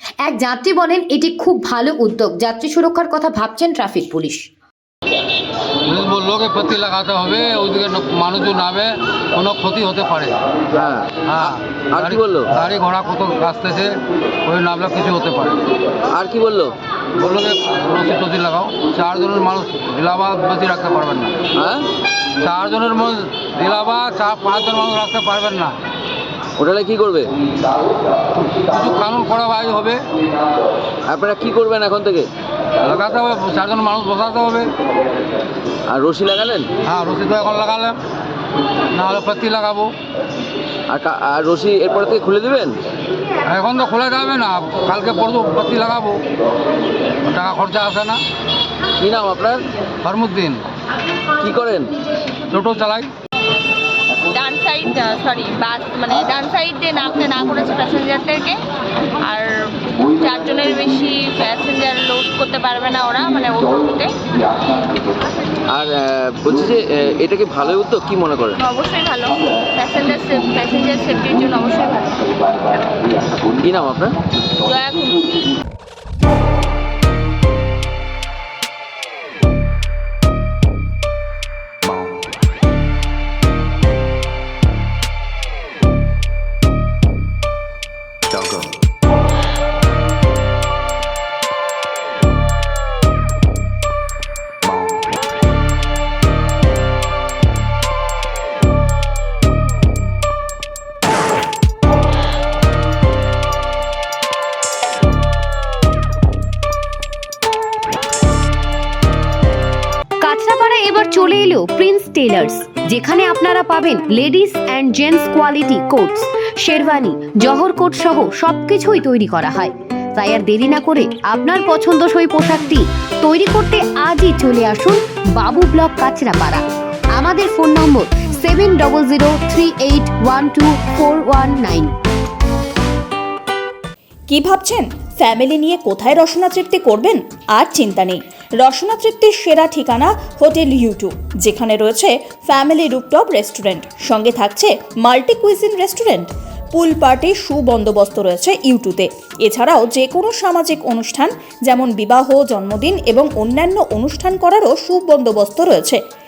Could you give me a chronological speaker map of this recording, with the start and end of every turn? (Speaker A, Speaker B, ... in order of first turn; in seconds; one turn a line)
Speaker A: 0.2-4.4
Speaker B: 5.9-10.4
Speaker C: 10.8-12.5
Speaker B: 11.3-15.7
Speaker C: 16.1-16.8
Speaker B: 17.2-21.4
Speaker C: 21.6-21.9
Speaker B: 22.4-25.8
Speaker C: 26.6-27.3
Speaker B: 28.5-30.1
Speaker C: 31.1-32.3
Speaker B: 32.8-34.7
Speaker C: 35.9-36.7
Speaker B: 36.8-38.0
Speaker B: 38.9-39.9
Speaker C: 40.9-42.8
Speaker B: 43.5-46.2
Speaker B: 47.2-48.2
Speaker C: 49.0-49.6
Speaker B: 50.0-50.6
Speaker C: 51.4-51.9
Speaker B: 52.5-53.1
Speaker D: 54.2-58.6
Speaker D: 59.2-64.1
Speaker C: 65.7-68.6
Speaker D: 68.6-73.2
Speaker C: 73.3-74.2
Speaker D: 74.6-75.3
Speaker A: 110.2-126.6
Speaker A: 127.2-131.9
Speaker E: 134.3-156.0